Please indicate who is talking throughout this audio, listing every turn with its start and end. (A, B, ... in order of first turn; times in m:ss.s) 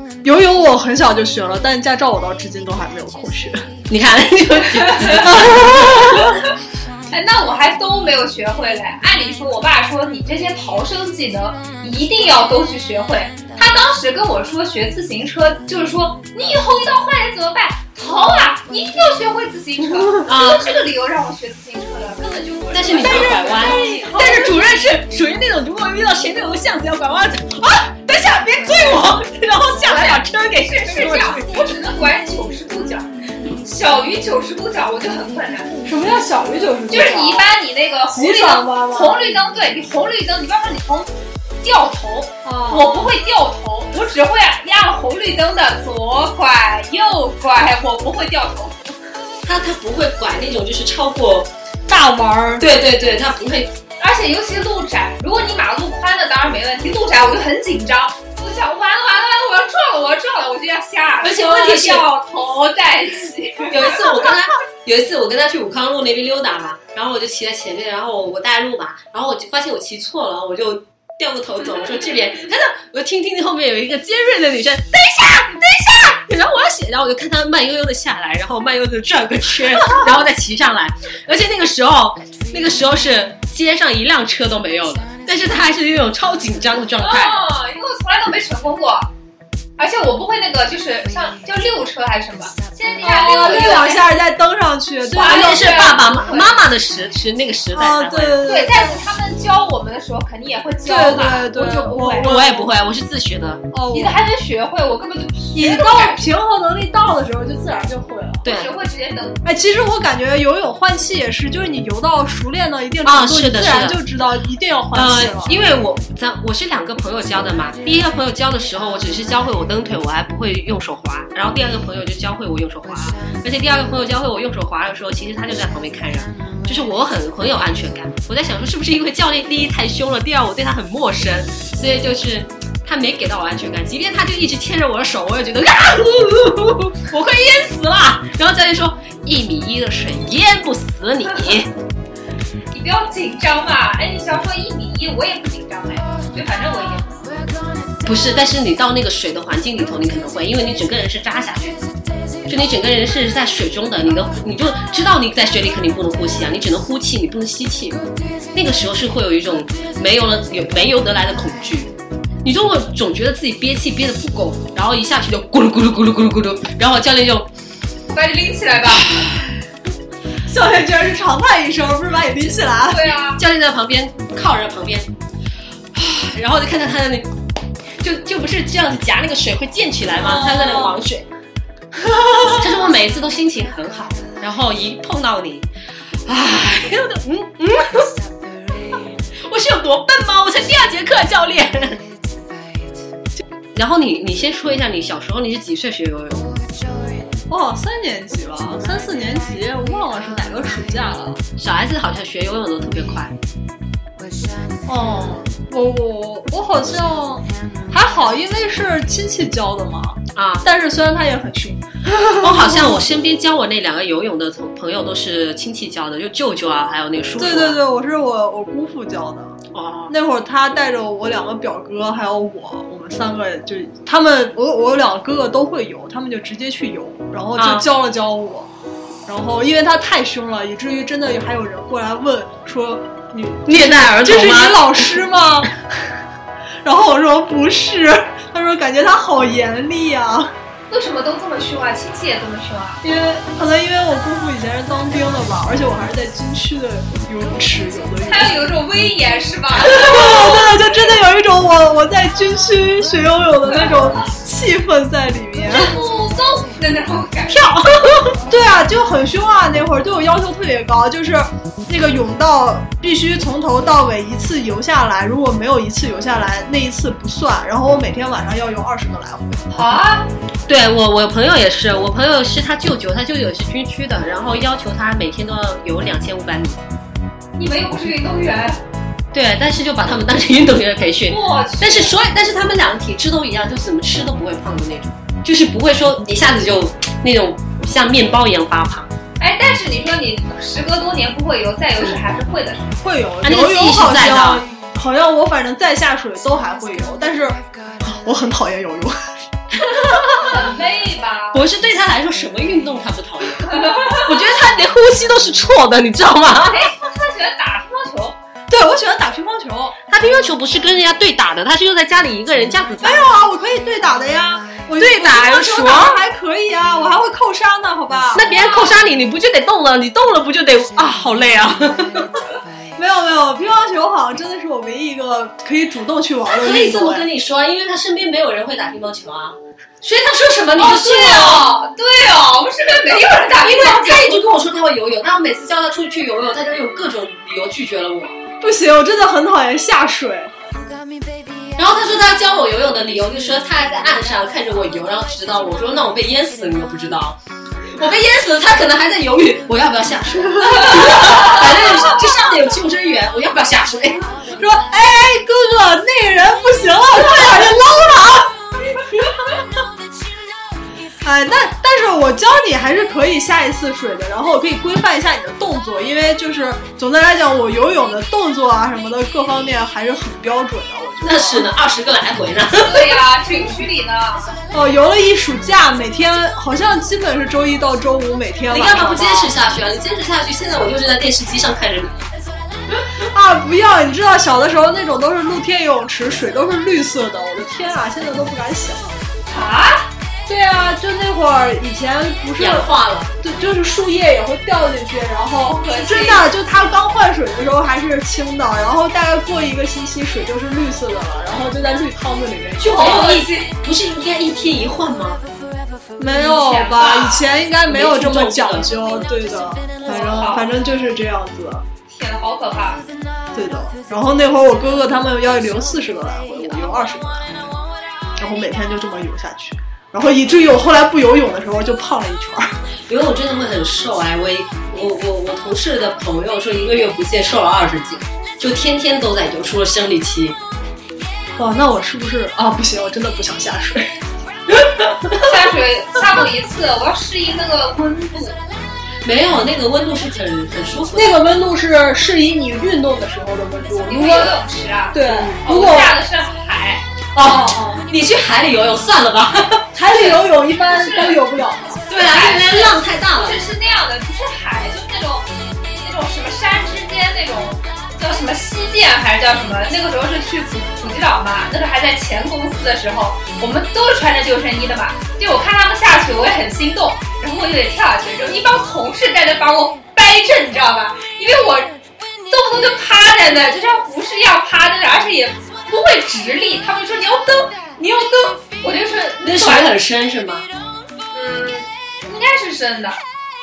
0:00.2-0:03.7 A
0:03.9-0:06.3 B
0:04.9-0:05.4 C
0:07.1-0:24.7 C
0:20.2-0:20.8 B
0:22.7-0:31.6 B
0:22.9-0:24.7 A
0:29.8-0:33.1 C
0:33.6-0:36.0 C
0:35.8-0:37.5 A
0:36.9-0:41.1 C
0:38.1-0:39.4 A
0:41.6-0:48.9 C
0:42.4-0:43.1 A
0:49.4-0:51.5 B
0:51.9-0:52.7 A
0:52.6-0:53.7 B
0:54.0-1:04.3 C
1:01.2-1:02.1 B
1:03.7-1:27.4 B
1:27.0-1:29.1 C
1:29.8-1:34.2 C
1:33.0-1:35.9 A
1:35.1-1:36.6 C
1:35.2-1:38.5 B
1:37.7-1:39.0 A
1:38.4-1:42.3 C
1:40.8-1:42.7 A
1:42.2-1:43.6 B
1:43.7-1:44.2 A
1:43.9-1:46.2 C
1:45.5-1:48.4 A
1:48.4-1:49.4 C
1:49.4-1:55.6 A
1:53.0-1:54.0 B
1:54.9-2:21.7 B
2:22.7-2:27.2 C
2:28.0-2:31.8 B
2:32.5-2:38.0 B
2:38.5-2:47.5 B
2:48.1-2:49.2 C
2:50.4-2:53.1 A
2:52.9-2:53.4 C
2:53.4-2:55.1 B
2:55.9-2:57.3 B
2:58.0-3:01.2 B
3:02.0-3:02.5 A
3:02.5-3:05.7 B
3:06.2-3:08.1 B
3:09.4-3:12.0 B
3:13.7-3:16.5 B
3:17.5-3:21.4 A
3:21.6-3:23.4 B
3:24.8-3:33.1 A
3:30.3-3:30.6 B
3:32.4-3:37.8 B
3:37.4-3:39.6 A
3:39.7-3:40.1 B
3:40.1-3:48.7 A
3:47.6-3:47.9 B
3:49.2-3:55.7 A
3:53.6-3:55.2 B
3:56.8-4:00.5 A
4:00.9-4:03.0 C
4:03.0-4:08.6 A
4:08.3-4:11.1 C
4:09.8-4:16.0 A
4:13.7-4:14.3 C
4:15.6-4:17.7 C
4:17.5-4:18.4 B
4:18.4-4:29.7 A
4:29.7-4:30.3 C
4:30.7-4:36.8 B
4:37.6-4:38.8 C
4:39.3-4:49.1 B
4:41.3-4:42.1 C
4:49.4-4:53.0 C
4:53.0-4:59.3 A
4:53.4-4:54.6 B
4:59.8-5:00.5 B
5:00.4-5:01.6 C
5:01.5-5:06.9 B
5:03.7-5:04.4 C
5:06.6-5:08.4 C
5:08.7-5:10.0 A
5:10.1-5:13.2 B
5:13.0-5:18.6 A
5:15.0-5:16.2 B
5:18.3-5:22.2 B
5:18.6-5:18.9 C
5:23.0-5:27.2 A
5:26.5-5:31.7 B
5:30.8-5:34.4 C
5:33.5-5:38.4 B
5:38.6-5:40.5 A
5:41.8-5:47.4 B
5:47.9-5:54.3 B
5:54.6-5:58.5 A
6:01.2-6:11.7 A
6:11.2-6:13.1 B
6:12.8-6:14.6 C
6:14.7-6:19.5 A
6:18.7-6:22.2 B
6:23.2-6:29.2 A
6:29.5-6:30.1 C
6:30.5-6:43.3 A
6:32.6-6:33.3 B
6:35.6-6:36.5 C
6:42.8-6:45.4 B
6:42.8-6:43.7 C
6:46.2-6:51.8 A
6:46.2-6:47.5 C
6:47.8-6:48.9 B
6:50.0-6:50.7 C
6:52.1-6:53.0 C
6:53.5-6:57.6 A
6:58.4-7:02.7 A
7:03.1-7:10.6 B
7:11.6-7:14.1 A
7:14.9-7:15.1 B
7:15.4-7:18.6 C
7:19.2-7:21.4 B
7:21.1-7:24.5 A
7:24.1-7:28.0 C
7:25.1-7:26.2 A
7:27.3-7:29.8 B
7:29.9-7:32.0 A
7:30.0-7:31.4 C
7:32.1-7:33.6 B
7:32.1-7:51.9 C
7:52.5-7:59.9 C
7:59.4-8:00.6 B
8:01.3-8:03.2 C